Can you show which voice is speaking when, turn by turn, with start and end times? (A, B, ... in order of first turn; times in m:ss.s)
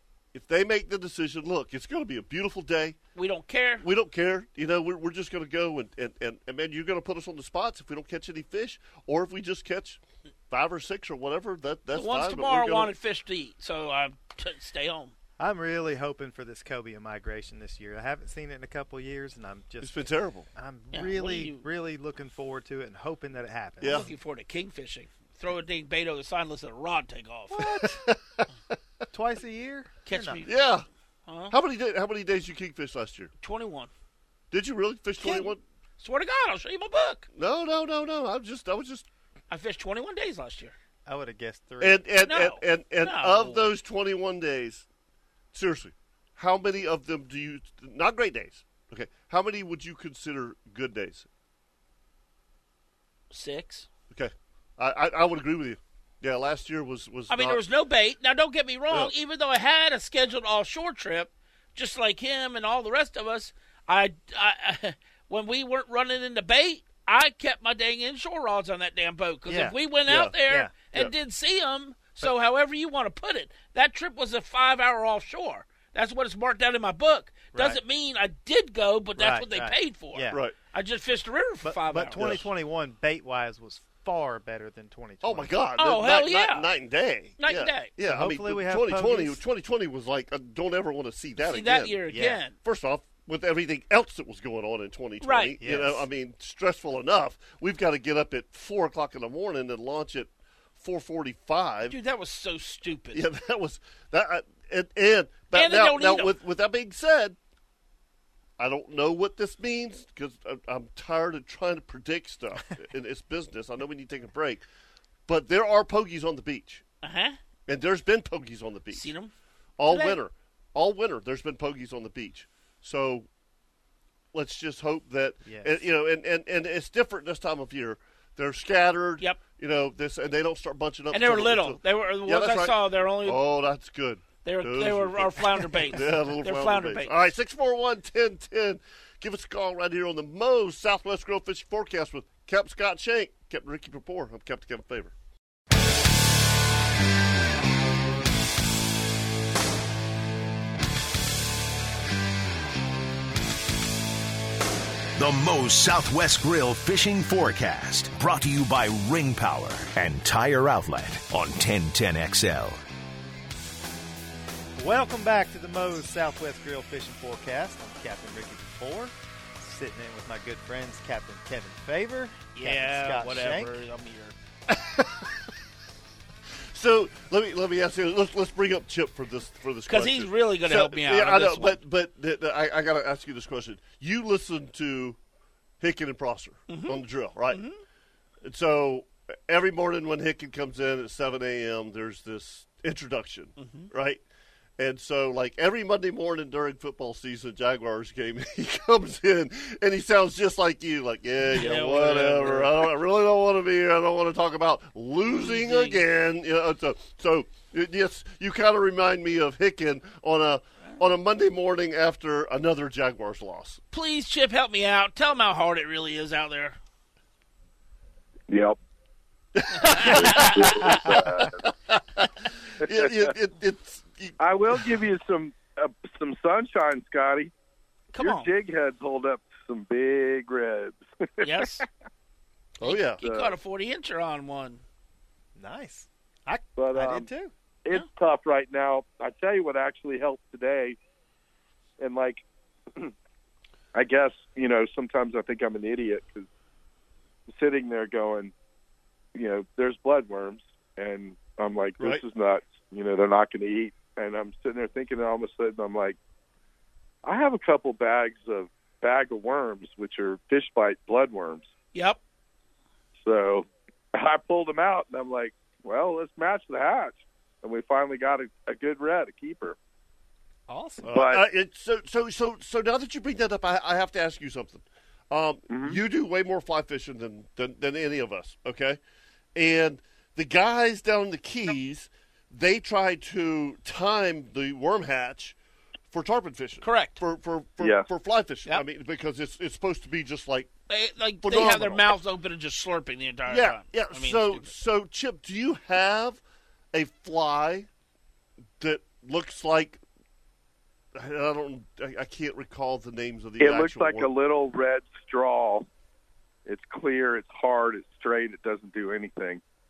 0:00.3-0:03.0 A
0:03.2-0:03.8 B
0:03.8-0:12.9 A
0:11.9-0:15.1 B
0:15.4-0:24.1 C
0:19.8-0:20.5 A
0:20.9-0:21.6 B
0:23.8-0:24.1 A
0:23.8-0:27.6 B
0:27.5-0:28.1 C
0:27.6-0:28.5 A
0:29.1-0:30.4 C
0:30.1-0:30.6 B
0:30.4-0:30.9 A
0:31.3-0:31.6 B
0:31.5-0:33.3 A
0:33.4-0:33.9 B
0:34.5-0:35.6 A
0:35.2-0:35.5 C
0:36.0-0:37.3 B
0:37.4-0:39.1 A
0:39.5-0:40.8 B
0:41.1-0:42.0 C
0:41.8-0:44.8 A
0:42.2-0:43.7 B
0:45.5-0:51.3 A
0:53.3-0:53.9 B
0:54.1-0:57.6 A
0:57.3-1:22.4 B
1:09.5-1:09.8 C
1:10.1-1:10.3 A
1:10.4-1:10.7 C
1:17.5-1:17.8 C
1:19.2-1:20.4 C
1:21.6-1:25.5 C
1:22.2-1:22.4 A
1:25.2-1:32.0 A
1:25.8-1:26.7 B
1:27.4-1:27.9 B
1:28.1-1:29.4 C
1:31.4-1:32.6 B
1:32.1-1:32.4 C
1:32.6-1:42.0 A
1:35.2-1:35.6 B
1:35.6-1:36.1 C
1:41.9-1:43.2 B
1:43.1-1:47.4 A
1:45.5-1:46.3 B
1:48.6-1:54.6 A
1:55.3-1:56.8 A
1:57.0-1:57.4 B
1:57.7-1:59.1 A
1:58.9-1:59.3 B
1:59.8-2:03.3 A
1:59.9-2:00.2 B
2:04.3-2:25.1 A
2:05.4-2:05.8 C
2:11.1-2:13.4 B
2:14.4-2:17.1 B
2:35.2-2:42.8 D
2:44.8-2:53.7 C
2:52.6-2:54.4 B
2:56.7-3:05.2 A
2:59.9-3:01.8 B
3:05.8-3:07.6 A
3:06.7-3:07.0 B
3:07.5-3:07.8 B
3:08.4-3:14.2 A
3:13.6-3:13.9 B
3:14.8-3:33.8 A
3:21.5-3:22.9 B
3:25.3-3:26.0 B
3:33.9-3:36.8 B
3:38.5-3:38.8 E
3:39.6-3:45.0 A
3:39.7-3:40.9 B
3:40.0-3:41.6 E
3:42.8-3:43.3 E
3:44.4-3:47.5 E
3:48.1-3:48.5 B
3:48.2-3:51.8 E
3:51.4-3:51.9 B
3:52.8-3:53.2 A
3:52.8-3:54.8 B
3:53.2-3:53.6 E
3:55.6-3:57.5 C
3:56.8-3:57.3 E
3:57.8-4:01.0 E
4:02.0-4:02.4 E
4:03.9-4:06.5 E
4:07.5-4:08.5 E
4:09.4-4:16.2 E
4:17.2-4:21.7 E
4:21.9-4:22.2 B
4:23.2-4:29.8 E
4:30.7-4:31.1 C
4:31.0-4:39.0 A
4:31.1-4:31.4 E
4:35.7-4:36.0 E
4:39.6-4:45.6 A
4:46.1-4:50.7 A
4:46.8-4:47.2 B
4:47.8-4:48.1 E
4:50.9-4:54.7 B
4:51.4-4:52.0 A
4:53.5-4:56.4 A
4:56.9-4:57.9 A
4:58.8-5:00.0 A
5:01.2-5:04.3 A
5:03.6-5:05.9 E
5:06.6-5:09.6 E